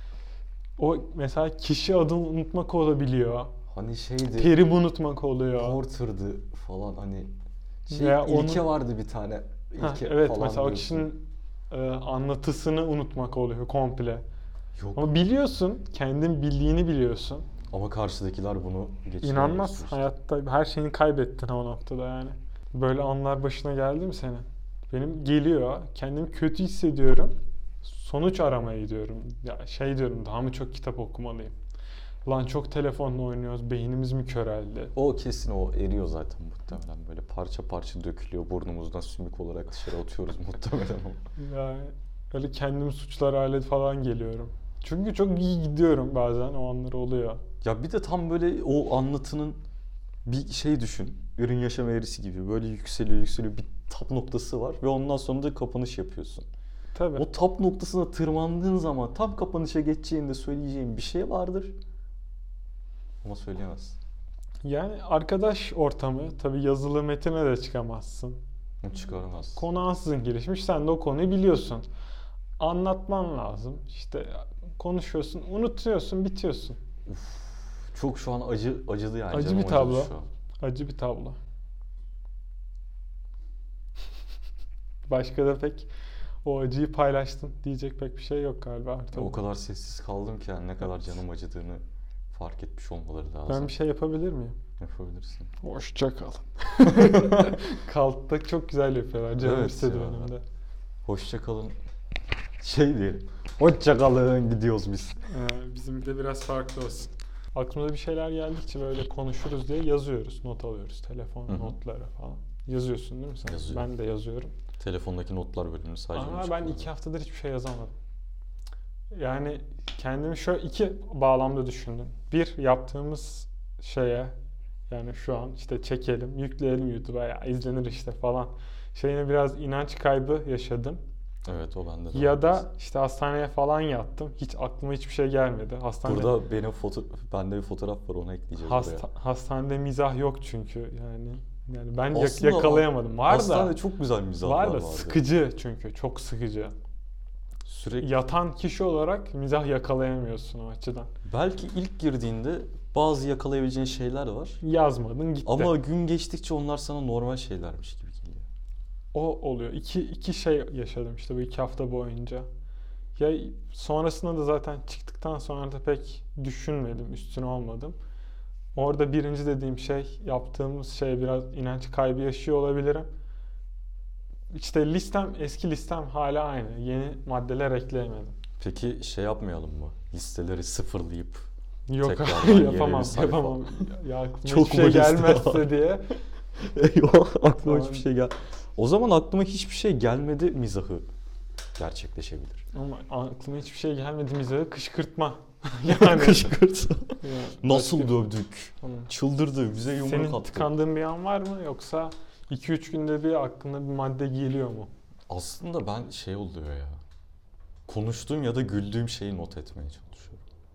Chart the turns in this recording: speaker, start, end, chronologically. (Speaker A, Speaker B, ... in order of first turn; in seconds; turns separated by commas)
Speaker A: 0.8-3.5, Speaker B: 3.7-4.6, Speaker A: 4.4-5.8, Speaker B: 5.6-7.3, Speaker A: 7.9-8.7, Speaker B: 7.9-11.1, Speaker A: 9.8-14.2, Speaker B: 14.8-15.2, Speaker A: 15.0-17.5, Speaker B: 17.7-20.1, Speaker A: 19.2-31.5, Speaker A: 32.2-35.0, Speaker B: 35.0-41.2, Speaker A: 41.4-47.4, Speaker B: 47.6-49.6, Speaker B: 50.2-56.5, Speaker A: 57.0-57.3, Speaker B: 57.1-61.7, Speaker B: 63.2-64.0, Speaker A: 64.6-68.4, Speaker B: 68.8-69.6, Speaker A: 69.6-71.9, Speaker A: 72.6-76.8, Speaker B: 77.1-80.3, Speaker A: 79.3-81.4, Speaker A: 85.1-85.9, Speaker A: 86.4-89.4, Speaker B: 89.1-93.8, Speaker A: 93.5-94.6, Speaker B: 94.8-95.5, Speaker A: 95.6-100.4, Speaker B: 96.9-97.6, Speaker B: 99.4-100.3, Speaker B: 101.0-101.8, Speaker B: 102.6-105.2, Speaker A: 105.3-114.5, Speaker B: 111.5-111.8, Speaker B: 113.5-113.9, Speaker B: 114.8-116.9, Speaker A: 116.1-117.9, Speaker A: 119.1-124.3, Speaker A: 124.9-131.0, Speaker B: 131.4-132.6, Speaker A: 132.1-136.4, Speaker B: 136.0-139.1, Speaker A: 138.6-143.8, Speaker B: 142.1-145.2, Speaker A: 144.4-146.8, Speaker B: 147.7-148.1, Speaker A: 148.0-151.1, Speaker B: 151.2-154.6, Speaker A: 154.6-155.8, Speaker B: 155.4-158.5, Speaker A: 159.1-162.5, Speaker A: 163.2-168.0, Speaker A: 168.8-173.1, Speaker A: 174.5-178.3, Speaker B: 178.6-181.5, Speaker A: 181.9-186.1, Speaker B: 182.0-183.9, Speaker B: 184.4-185.8, Speaker B: 186.6-191.1, Speaker A: 187.6-188.1, Speaker B: 191.8-192.6, Speaker A: 192.7-196.6, Speaker B: 195.9-200.7, Speaker A: 197.2-198.2, Speaker A: 198.8-199.1, Speaker A: 199.9-204.9, Speaker B: 205.3-207.0, Speaker B: 207.9-210.4